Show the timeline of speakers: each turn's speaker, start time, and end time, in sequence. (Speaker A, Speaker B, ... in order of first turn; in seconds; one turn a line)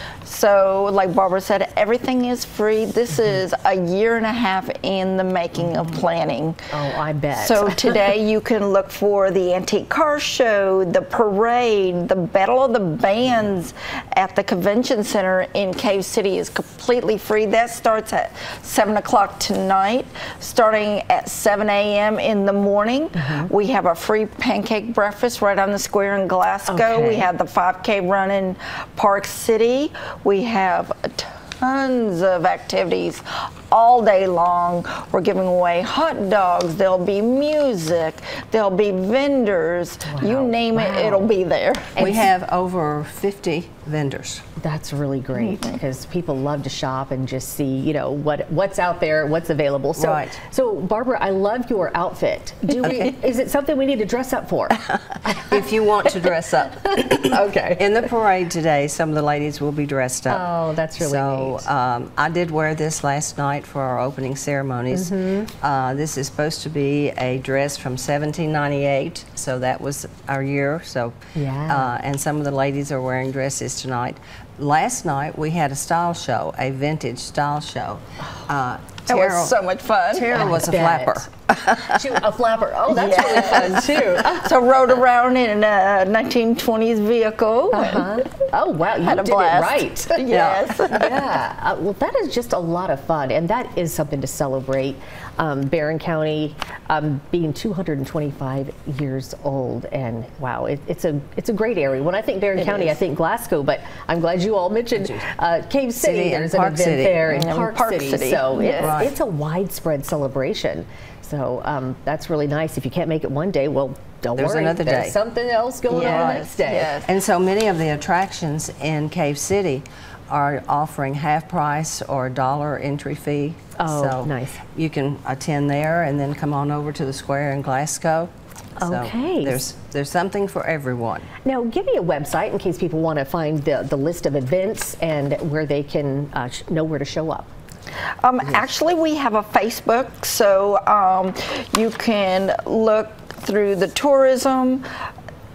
Speaker A: 0.2-6.6
Speaker B: 6.7-8.0
Speaker A: 7.3-42.0
Speaker B: 23.1-23.5
Speaker B: 26.7-27.3
Speaker B: 40.0-41.3
Speaker C: 42.0-44.4
Speaker B: 42.0-42.2
Speaker B: 44.6-56.3
Speaker C: 50.0-50.4
Speaker C: 52.8-53.1
Speaker C: 55.3-71.2
Speaker B: 56.9-58.0
Speaker B: 60.3-61.7
Speaker B: 64.9-65.5
Speaker B: 71.3-71.9
Speaker C: 71.7-79.5
Speaker A: 79.1-80.5
Speaker C: 80.1-82.2
Speaker B: 80.3-84.5
Speaker A: 82.9-88.2
Speaker B: 87.7-90.2
Speaker A: 89.0-91.1
Speaker C: 90.3-91.2
Speaker B: 90.8-117.0
Speaker A: 102.5-103.0
Speaker C: 105.0-105.2
Speaker C: 106.0-107.4
Speaker A: 107.3-109.0
Speaker C: 108.8-109.1
Speaker C: 114.3-115.2
Speaker A: 115.9-117.1
Speaker C: 116.0-116.4
Speaker C: 117.0-131.3
Speaker B: 123.8-124.6
Speaker B: 128.8-129.6
Speaker B: 131.4-137.5
Speaker A: 138.2-144.8